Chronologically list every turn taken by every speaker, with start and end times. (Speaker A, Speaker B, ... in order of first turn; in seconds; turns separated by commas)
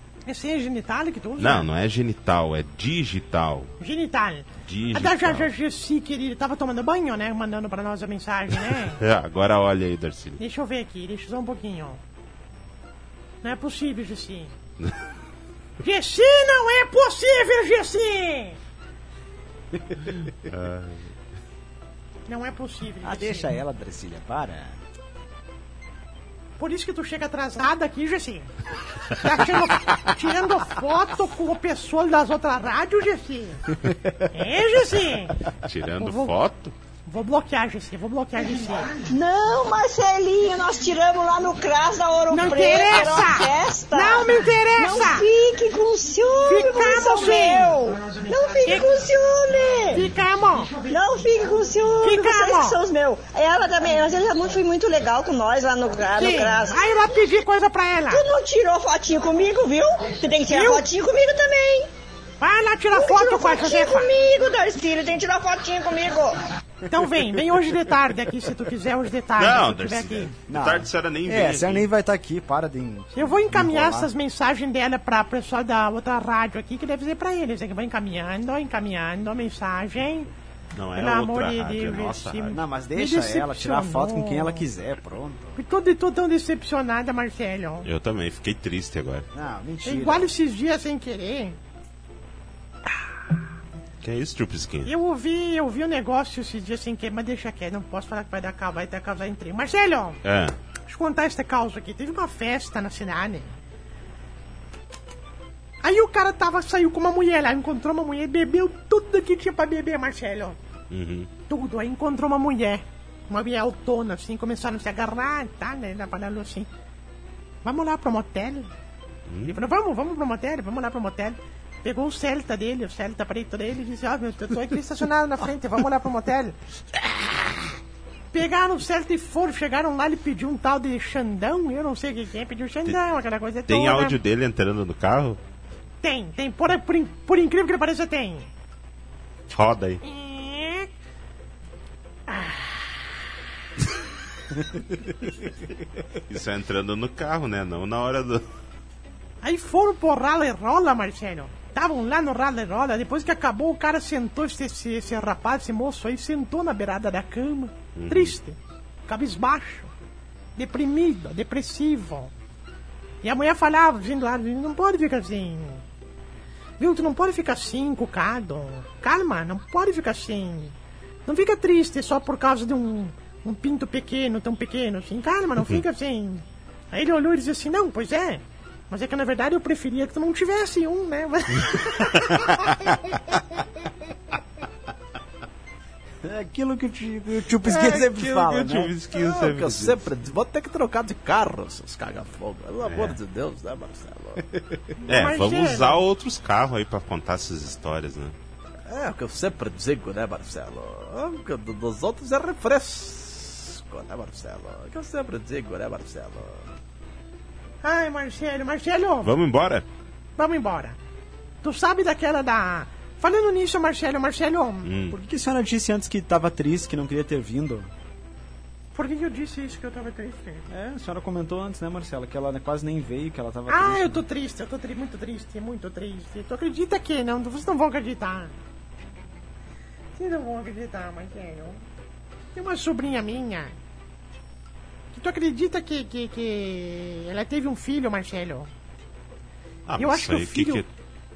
Speaker A: 0.2-1.7, Speaker B: 1.4-3.7, Speaker A: 3.8-9.0, Speaker B: 4.6-5.5, Speaker B: 8.9-10.4, Speaker A: 10.4-12.0, Speaker A: 13.4-14.5, Speaker A: 15.8-18.6, Speaker B: 20.2-21.1, Speaker A: 22.3-23.5, Speaker C: 23.0-24.8, Speaker A: 26.6-28.5, Speaker A: 29.1-33.7, Speaker C: 33.8-34.3, Speaker A: 34.3-35.4, Speaker B: 35.6-36.7, Speaker A: 36.0-36.4, Speaker A: 37.0-38.9, Speaker D: 39.0-50.1, Speaker A: 42.3-45.3, Speaker A: 46.4-47.7, Speaker A: 49.9-50.7, Speaker D: 50.9-56.9, Speaker A: 52.0-52.8, Speaker A: 56.1-58.2, Speaker D: 58.1-61.9, Speaker A: 60.5-60.9, Speaker A: 62.4-64.1, Speaker D: 62.9-66.4, Speaker A: 66.9-70.3, Speaker B: 69.4-71.9, Speaker C: 70.5-74.1, Speaker A: 73.1-80.3, Speaker B: 80.7-82.6, Speaker A: 80.9-84.6, Speaker C: 82.5-85.6, Speaker A: 85.5-87.9, Speaker B: 87.8-89.2, Speaker C: 89.3-90.3, Speaker A: 89.8-91.6, Speaker B: 94.0-94.9, Speaker A: 94.8-100.2, Speaker B: 100.2-100.5, Speaker A: 100.9-103.5, Speaker A: 105.8-110.6, Speaker B: 110.9-111.3, Speaker A: 111.5-116.7, Speaker A: 117.6-118.7, Speaker B: 119.3-119.6, Speaker A: 119.4-126.6, Speaker A: 128.3-134.2, Speaker B: 133.7-135.4, Speaker A: 136.0-138.5, Speaker B: 139.5-140.0, Speaker A: 140.0-140.9, Speaker A: 142.3-142.8, Speaker B: 146.3-148.4, Speaker A: 149.4-159.9, Speaker B: 157.9-158.3, Speaker A: 160.6-162.3, Speaker A: 163.2-165.8, Speaker A: 166.8-170.7, Speaker A: 171.2-183.3, Speaker B: 182.2-183.1, Speaker C: 186.2-188.9, Speaker B: 187.6-190.1, Speaker E: 189.1-194.6, Speaker B: 192.9-193.2, Speaker A: 195.0-196.0, Speaker B: 195.1-198.3, Speaker E: 198.9-206.7, Speaker A: 207.8-209.3, Speaker B: 209.2-209.8, Speaker A: 210.4-211.0, Speaker A: 211.6-214.9, Speaker B: 214.8-215.2, Speaker C: 215.1-217.9, Speaker A: 218.9-220.6, Speaker C: 220.7-224.2, Speaker A: 223.7-228.5, Speaker A: 230.2-231.8, Speaker A: 232.5-233.7, Speaker A: 235.1-238.7, Speaker B: 239.9-240.9, Speaker A: 240.0-240.8